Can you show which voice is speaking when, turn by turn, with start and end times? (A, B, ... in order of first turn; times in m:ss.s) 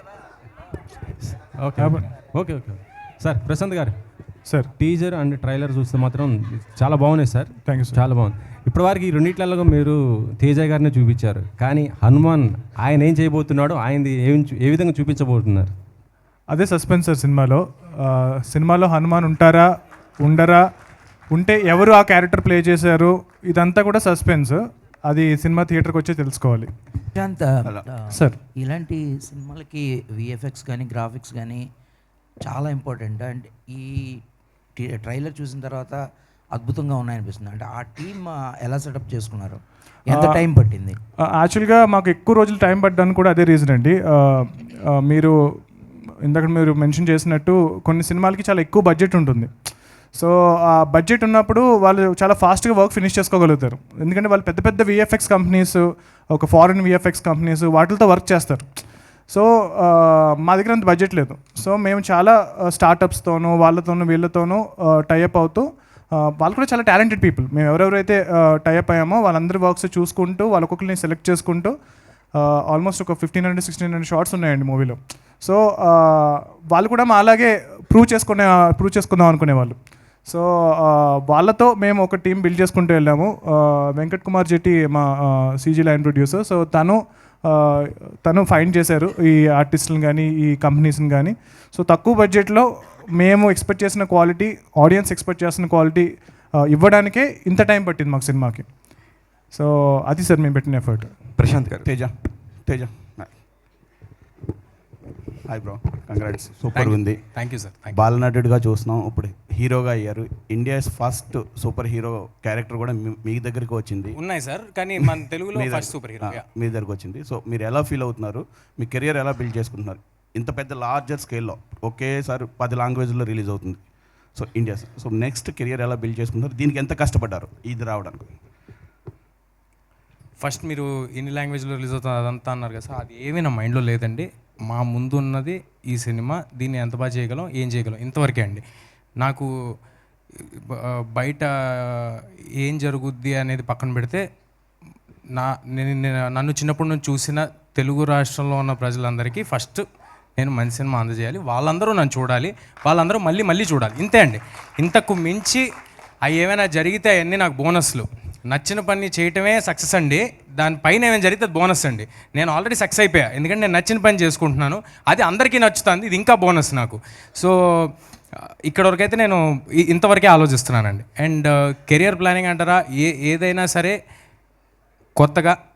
0:01.2-0:04.0 A
0:01.8-0:02.1 B
0:04.4-0:04.7 B
0:04.8-0:15.7 A
0:07.6-0:08.0 B
0:16.5-0:19.7 B
0:20.2-0:20.6 B
0:21.3-0:26.7 B
0:27.1-0:31.6 C
0:28.1-0:28.4 B
0:32.4-0:34.2 C
0:34.8-0:36.0 C
0:36.5-0:41.0 C
0:40.1-0:40.4 B
0:41.3-0:45.4 B
0:46.2-0:49.5 B
0:50.1-0:58.7 B
0:59.3-1:11.7 B
1:12.4-1:32.7 B
1:33.2-1:38.7 B
1:39.5-1:41.2 B
1:41.4-1:43.4 D
1:41.5-1:41.9 A
1:45.5-1:47.2 D
1:46.7-1:48.0 E
1:47.9-1:54.2 D
1:54.2-1:56.4 E
1:55.5-2:03.8 D
2:04.4-2:08.3 D
2:10.4-2:18.6 E
2:19.2-2:19.5 E
2:20.5-2:24.2 E
2:25.4-2:29.8 E
2:30.4-2:35.6 E
2:36.2-2:47.9 E
2:48.7-2:54.0 E
2:55.2-2:55.6 E